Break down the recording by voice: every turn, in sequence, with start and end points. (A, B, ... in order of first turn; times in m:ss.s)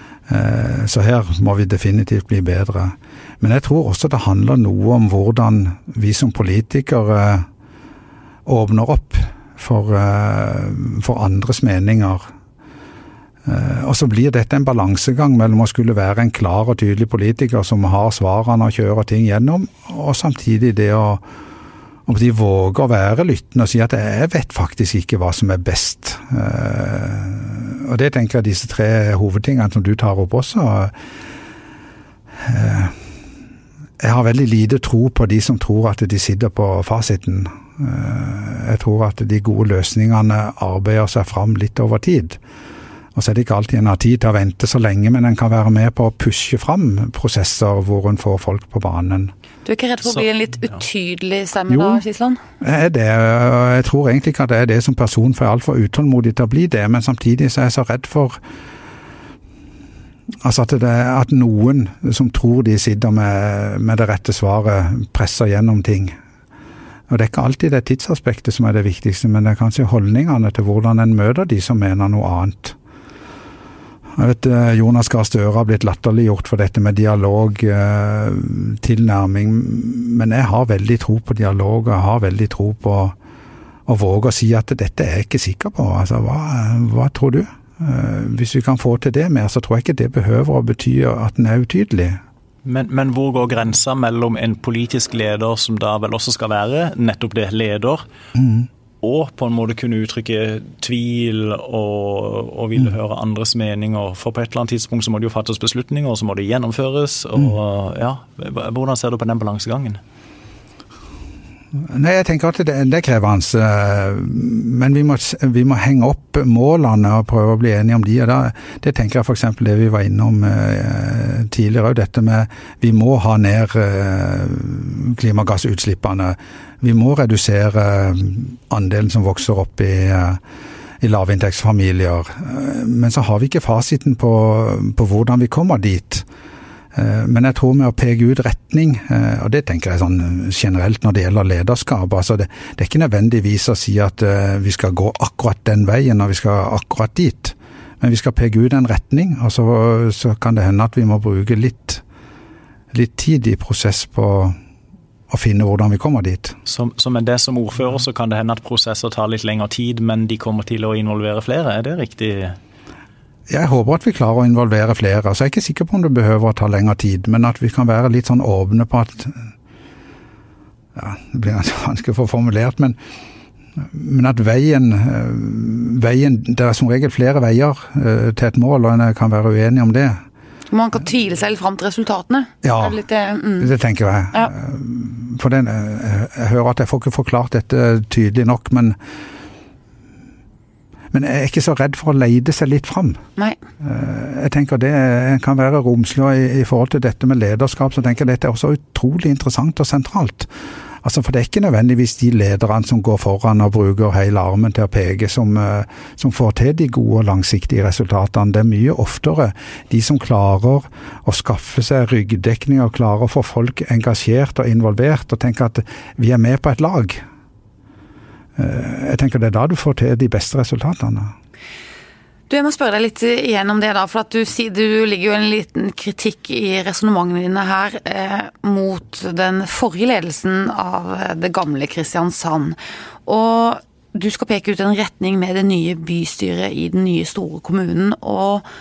0:00.3-0:07.5 A
0:08.4-0:12.3 A
0:13.4-0:21.2 A
0:22.0-0:30.9 A
0:32.4-0:33.0 A
0:34.0-0:42.4 A
0:43.1-0:49.3 A
0:49.6-0:52.4 B
0:51.7-0:52.0 A
0:52.6-0:58.4 A
1:00.4-1:06.2 A
1:07.1-1:12.8 A
1:14.2-1:23.2 A
1:23.9-1:32.2 A
1:32.6-1:38.0 C
1:38.4-1:38.7 A
1:39.0-1:50.0 C
1:51.9-2:10.4 A
2:11.0-2:16.2 A
2:16.9-2:32.0 A
2:32.9-2:34.6 A
2:35.3-2:36.6 A
2:36.6-2:42.6 C
2:43.5-2:49.4 A
2:50.9-2:53.0 A
2:53.8-3:00.2 A
3:00.7-3:03.7 B
3:02.6-3:03.0 A
3:03.6-3:09.0 A
3:11.1-3:13.2 A
3:13.8-3:20.5 A
3:21.0-3:37.2 A
3:38.6-3:41.3 A
3:42.5-3:58.6 B